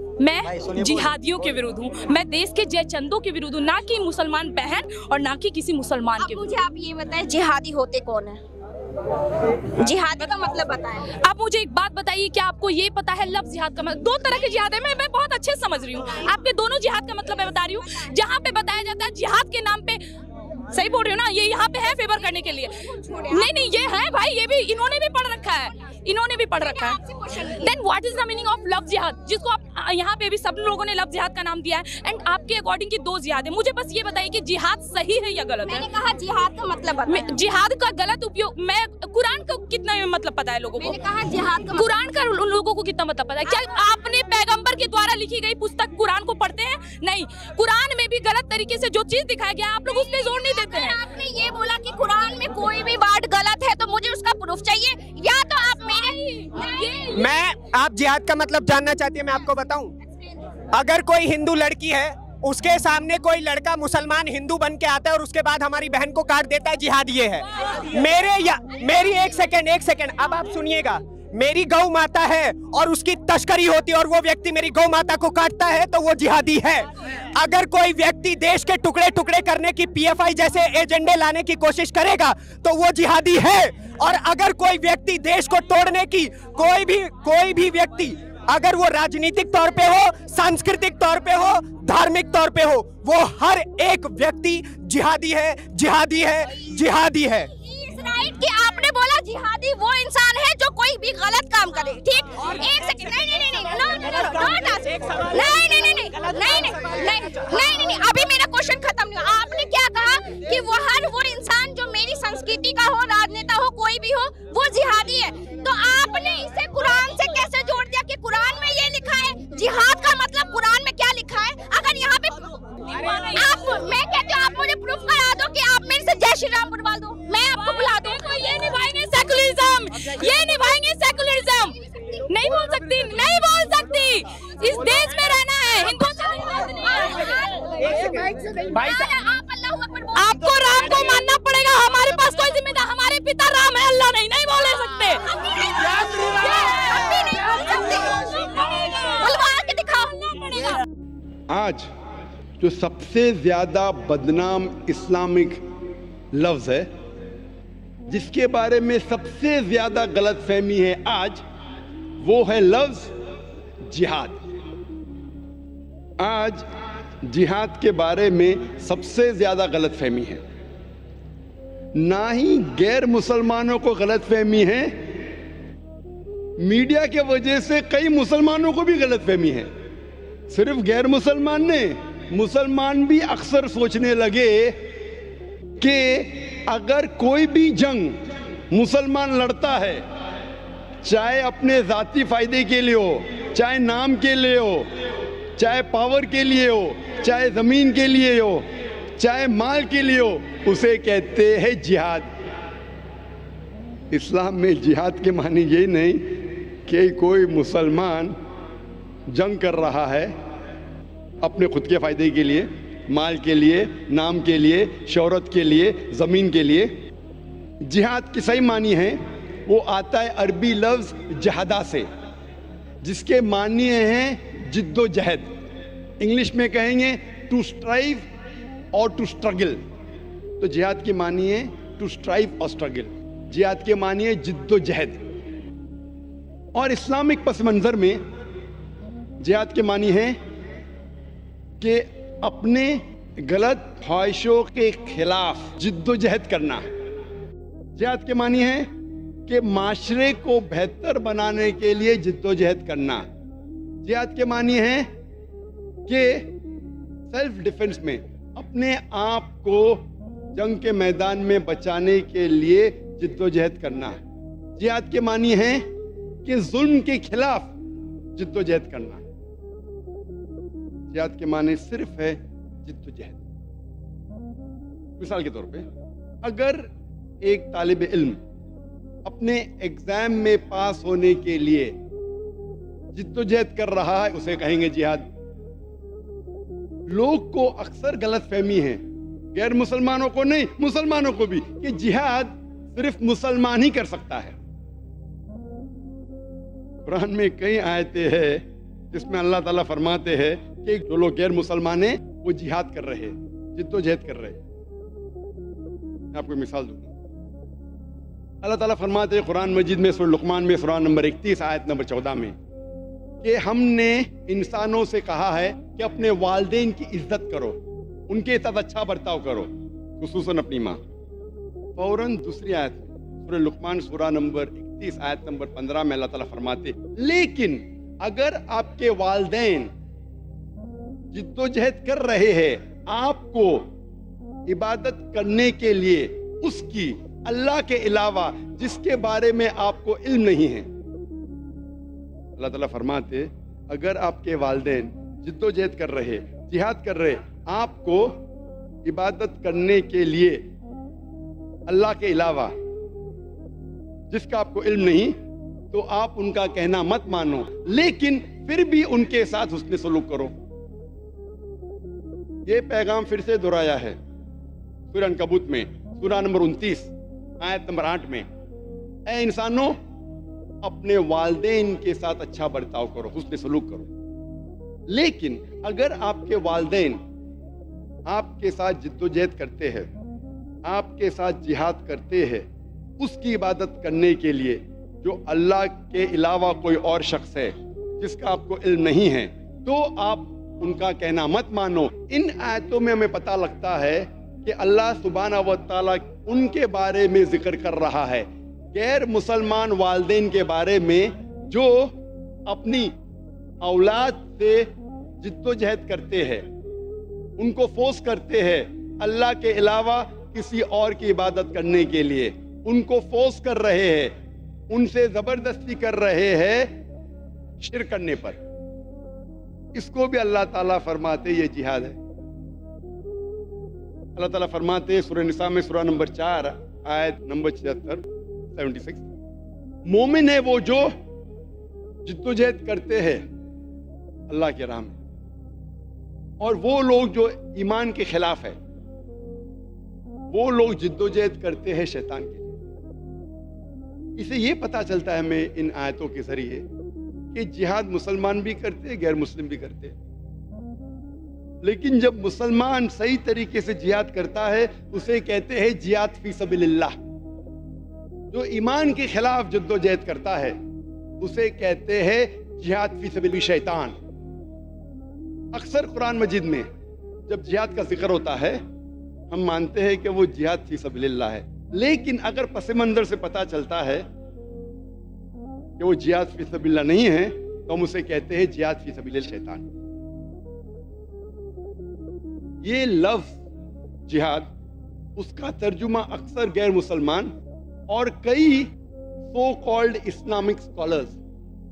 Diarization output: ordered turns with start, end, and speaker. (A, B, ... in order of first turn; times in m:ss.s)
0:00.2-0:06.6 A
0:06.2-0:08.4 B
0:09.8-0:11.1 B
0:11.2-0:20.0 A
0:20.7-0:35.8 A
0:22.2-0:23.7 B
0:26.6-0:27.7 B
0:35.6-0:37.4 B
0:37.0-0:41.1 A
0:40.8-0:41.9 B
0:41.6-0:51.0 A
0:43.4-0:43.8 B
0:49.9-0:57.1 B
0:55.9-0:57.3 A
0:57.1-0:59.9 C
1:00.7-1:37.5 C
1:37.6-2:02.7 B
2:02.8-2:03.6 A
2:03.3-2:08.7 B
2:07.5-2:17.4 A
2:15.8-2:21.2 B
2:20.1-2:25.2 A
2:25.2-2:30.8 B
2:25.8-2:27.2 A
2:28.7-2:29.0 A
2:31.5-2:31.9 D
2:32.6-2:35.6 D
2:36.3-2:36.9 D
2:38.1-2:41.4 D
2:42.2-2:43.1 D
2:43.8-2:44.4 D
2:46.2-2:46.6 D
2:47.2-2:50.4 D
2:51.9-2:55.0 D
2:56.6-2:59.7 D
3:00.5-3:04.8 D
3:05.8-3:10.0 D
3:11.0-3:14.9 D
3:15.6-3:18.6 D
3:19.2-3:22.3 D
3:24.1-3:28.3 D
3:29.3-3:30.3 D
3:31.4-3:36.9 D
3:37.8-3:42.1 D
3:43.0-3:45.5 D
3:46.2-3:48.2 D
3:48.9-3:49.8 D
3:50.6-3:55.2 D
3:56.7-3:58.2 D
3:59.4-4:00.4 D
4:01.8-4:06.8 D
4:07.9-4:08.9 D
4:09.5-4:13.2 D
4:14.0-4:15.1 D
4:16.1-4:16.5 D
4:17.3-4:24.2 D
4:24.8-4:25.9 D
4:26.4-4:27.7 D
4:28.3-4:29.2 D
4:31.1-4:33.4 D
4:35.2-4:35.8 D
4:36.4-4:36.9 D
4:37.4-4:38.4 D
4:39.2-4:41.9 D
4:43.1-4:45.2 D
4:47.1-4:49.0 D
4:49.5-4:54.5 D
4:57.0-5:04.6 D
5:06.3-5:07.1 D
5:08.6-5:12.6 D
5:13.4-5:21.0 D
5:22.0-5:29.9 D
5:31.3-5:33.9 D
5:34.7-5:40.9 D
5:42.6-5:48.4 D
5:49.0-5:50.6 D
5:51.9-5:52.7 D
5:54.3-5:55.4 D
5:55.9-6:00.5 D
6:02.6-6:04.2 D
6:05.1-6:08.5 D
6:09.2-6:10.0 D
6:10.8-6:14.1 D
6:15.1-6:17.2 D
6:18.2-6:20.1 D
6:20.8-6:22.6 D
6:23.2-6:42.1 D
6:42.6-6:43.1 D
6:43.8-6:46.6 D
6:47.6-6:54.3 D
6:54.9-6:56.9 D
6:57.8-6:58.6 D
6:59.9-7:02.2 D
7:04.3-7:09.3 D
7:10.0-7:11.1 D
7:12.2-7:13.4 D
7:14.5-7:15.2 D
7:16.6-7:18.8 D
7:20.5-7:22.7 D
7:24.4-7:26.8 D
7:27.5-7:30.2 D
7:31.8-7:37.1 D
7:38.5-7:40.8 D
7:41.4-7:44.2 D
7:45.7-7:46.9 D
7:47.5-7:48.8 D
7:49.5-7:54.2 D
7:56.0-7:59.8 D
8:02.8-8:03.6 D
8:04.2-8:04.7 D
8:05.4-8:07.5 D
8:08.1-8:08.9 D
8:09.5-8:11.4 D